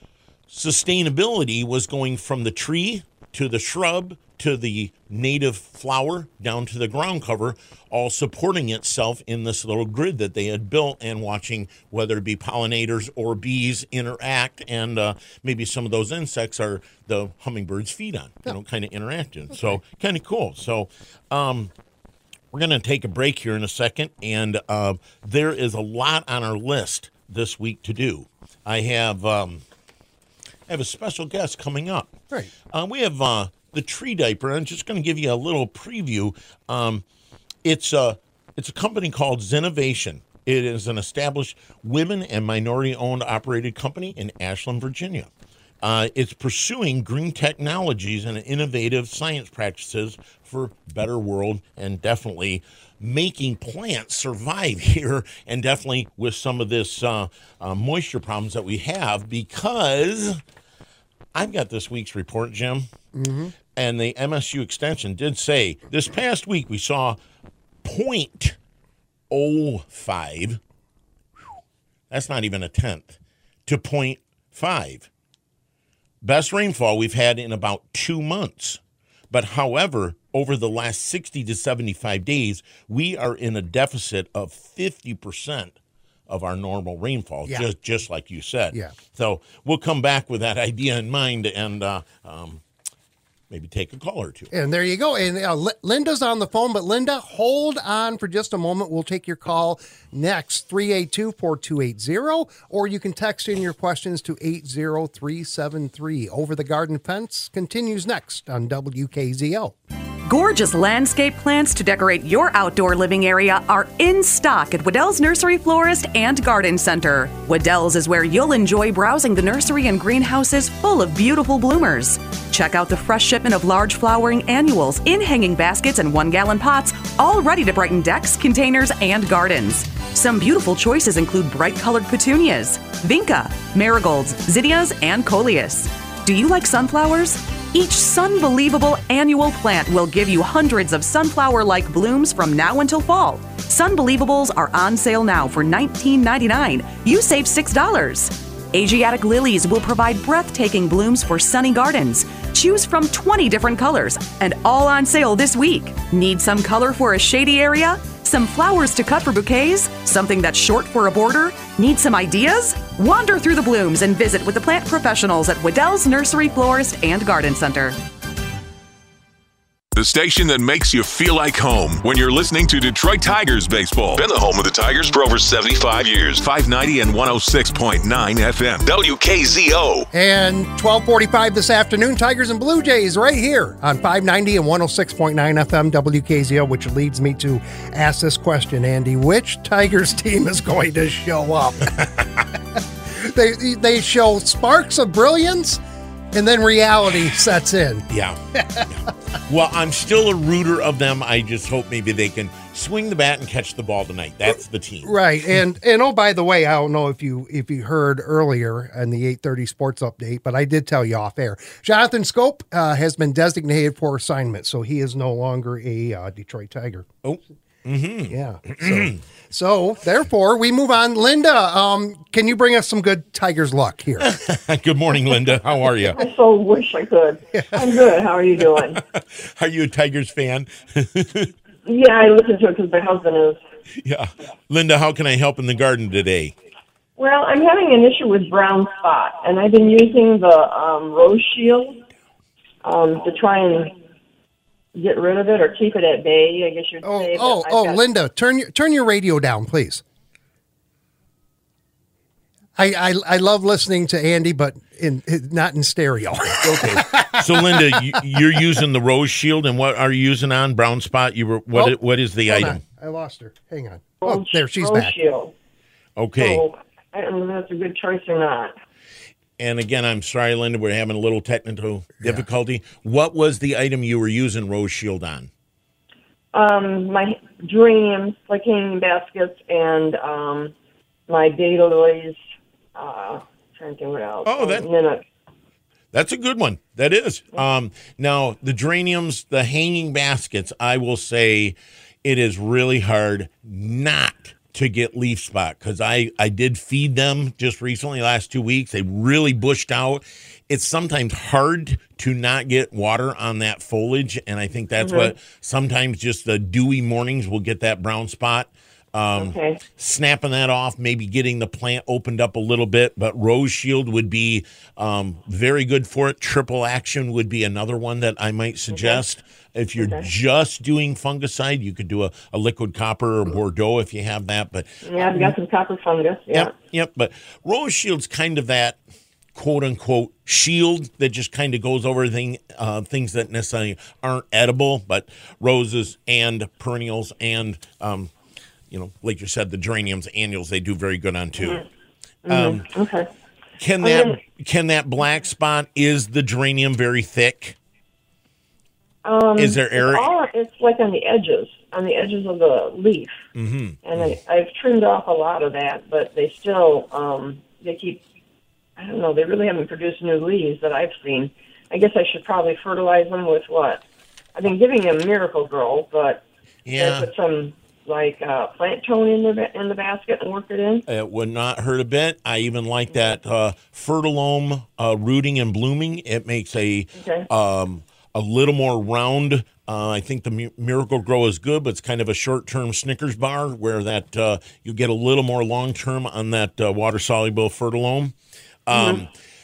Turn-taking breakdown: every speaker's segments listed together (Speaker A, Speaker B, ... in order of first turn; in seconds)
Speaker A: 0.5-21.7, 22.5-29.6, 30.7-32.1, 32.7-37.0, 37.6-45.3, 45.8-60.4, 61.3-62.9, 63.8-67.2, 67.8-68.6, 69.3-70.6, 72.1-75.1, 76.2-85.7, 86.3-92.6, 93.5-94.5, 198.1-198.4, 199.5-205.1, 217.2-219.2, 224.2-226.2, 229.0-231.5, 234.0-236.5, 256.5-262.8, 266.2-266.6, 269.6-275.5, 284.4-284.9, 286.1-325.5, 326.5-329.0, 329.5-338.3, 338.9-341.8, 342.5-342.9, 343.8-347.8, 349.6-350.3, 353.5-354.3, 366.9-367.3, 371.1-388.4, 388.9-389.3
Speaker B: 63.1-63.5, 94.5-109.7, 180.1-192.0, 193.1-195.8, 196.3-198.9, 205.0-217.1, 218.3-224.3, 247.0-250.0, 252.8-258.1, 262.5-265.1
Speaker C: 110.2-168.0
Speaker D: 169.9-180.1
Speaker E: 226.1-229.0, 231.8-233.6, 237.2-242.0, 242.8-243.9, 244.9-248.0, 264.2-265.5, 266.4-268.8, 276.5-280.7, 281.3-282.4, 282.9-285.2, 305.0-305.3, 309.4-309.8, 318.9-319.2, 320.0-320.2, 325.0-326.7, 342.4-343.3, 344.0-344.4, 349.2-353.4, 354.0-358.2, 359.0-364.0, 364.5-371.0, 377.2-377.5, 388.9-389.2